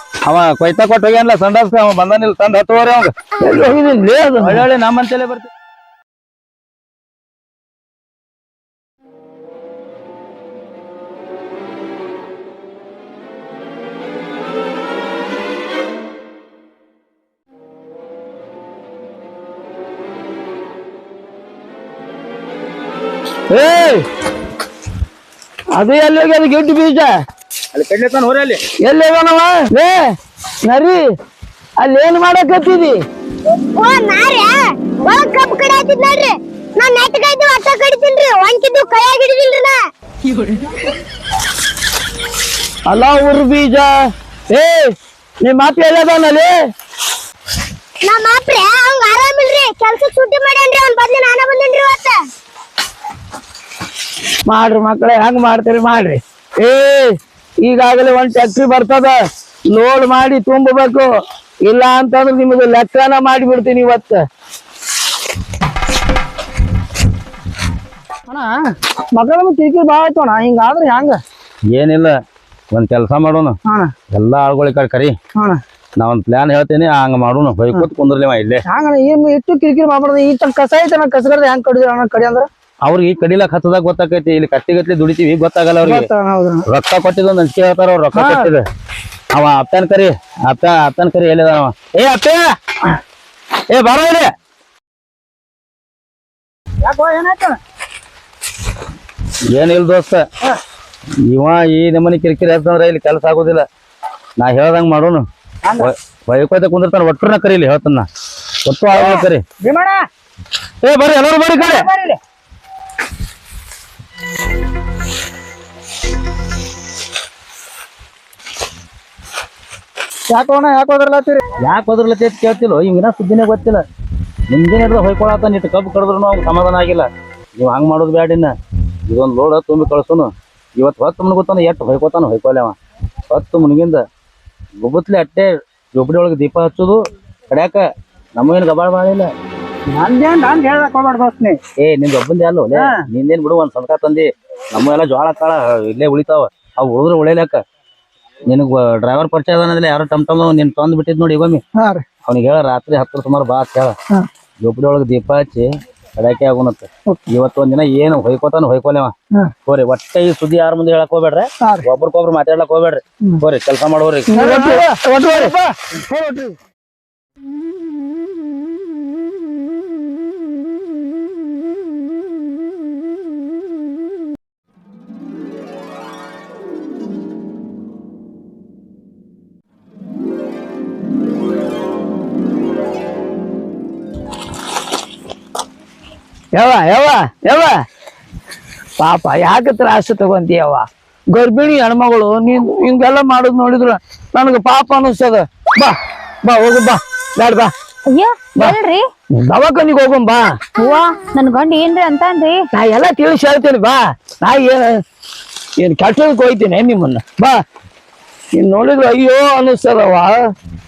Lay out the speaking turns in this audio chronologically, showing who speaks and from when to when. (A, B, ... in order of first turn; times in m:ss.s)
0:00.3-0:03.1 A
0:03.4-0:04.6 B
0:04.4-0:05.5 A
0:23.5-0:24.0 B
0:25.8-0:27.1 B
0:27.7-0:28.6 A
0:28.8-0:30.0 B
0:30.6-0:31.0 B
0:31.8-0:33.0 B
0:33.8-0:39.8 C
0:42.9-0:43.9 B
0:44.5-0:46.5 B
0:48.0-0:52.2 C
0:54.5-0:59.1 B
0:59.7-1:01.1 B
1:01.6-1:04.2 B
1:08.3-1:08.6 D
1:09.1-1:11.2 B
1:11.7-1:12.1 A
1:12.7-1:13.6 A
1:14.1-1:15.1 A
1:16.0-1:18.6 A
1:22.8-1:26.1 A
1:26.7-1:28.6 A
1:29.3-1:32.5 A
1:33.7-1:34.3 A
1:36.8-1:37.6 D
1:39.5-1:40.2 A
1:41.3-1:43.6 A
1:44.4-1:45.2 A
1:45.6-1:45.9 D
1:45.8-1:48.1 A
1:48.6-1:49.4 A
1:48.9-1:50.0 D
1:50.8-1:51.8 A
1:51.6-1:52.2 D
2:00.3-2:01.4 D
2:01.6-2:03.8 A
2:04.5-2:08.5 A
2:09.1-2:12.8 A
2:13.3-2:14.0 A
2:14.8-2:17.8 A
2:18.4-2:19.3 A
2:19.9-2:21.6 D
2:21.8-2:27.6 A
2:28.5-2:31.6 A
2:32.2-2:34.0 A
2:34.6-2:39.1 A
2:39.6-2:44.3 A
2:44.3-2:45.6 B
3:06.6-3:07.7 B
3:09.0-3:17.7 B
3:18.1-3:19.0 E
3:19.4-3:20.5 B
3:20.8-3:22.6 E
3:22.7-3:24.9 B
3:25.8-3:27.6 B
3:28.5-3:30.3 B